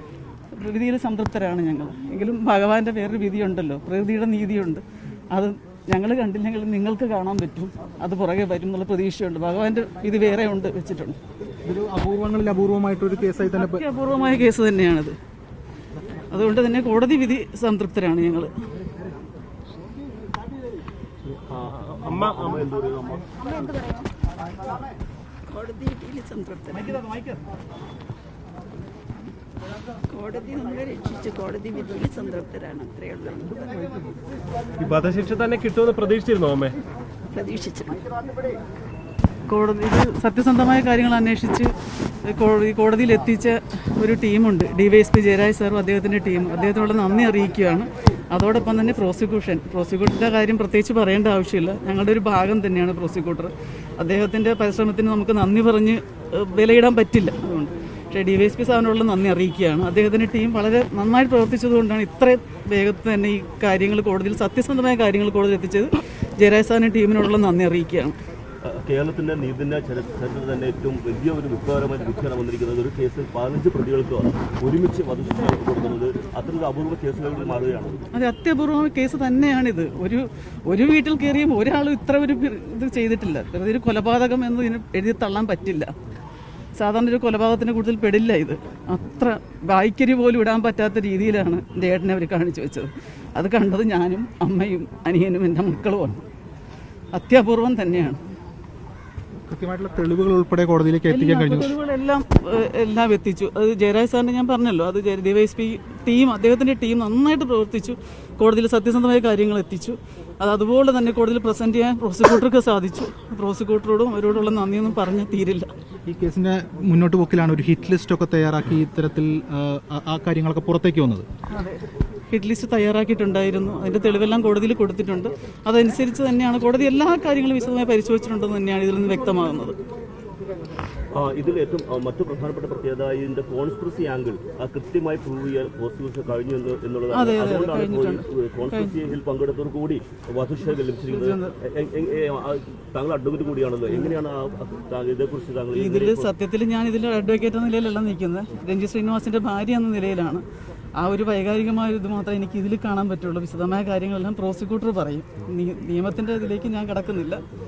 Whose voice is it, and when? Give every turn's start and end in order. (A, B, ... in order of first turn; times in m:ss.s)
0:00.5-0:11.2 A
0:11.6-0:13.8 B
0:13.5-0:15.2 A
0:16.3-0:18.5 A
0:21.5-0:23.9 C
0:25.5-0:27.1 D
0:25.6-0:26.0 E
0:30.1-0:33.8 D
0:30.7-0:31.8 E
0:32.6-0:33.9 E
0:34.8-0:36.8 E
0:37.3-0:38.0 D
0:39.5-0:41.7 A
0:42.2-1:08.2 A
1:08.6-1:18.0 C
1:18.1-1:25.9 A
1:26.8-1:36.2 A
1:37.1-1:38.2 A
1:39.5-1:41.7 B
1:41.1-1:55.7 A
1:56.1-2:01.3 B
2:01.5-2:09.8 A
2:11.1-2:26.3 C
2:17.1-2:19.0 A
2:21.1-2:21.6 A
2:25.8-2:30.4 A
2:31.0-2:37.4 A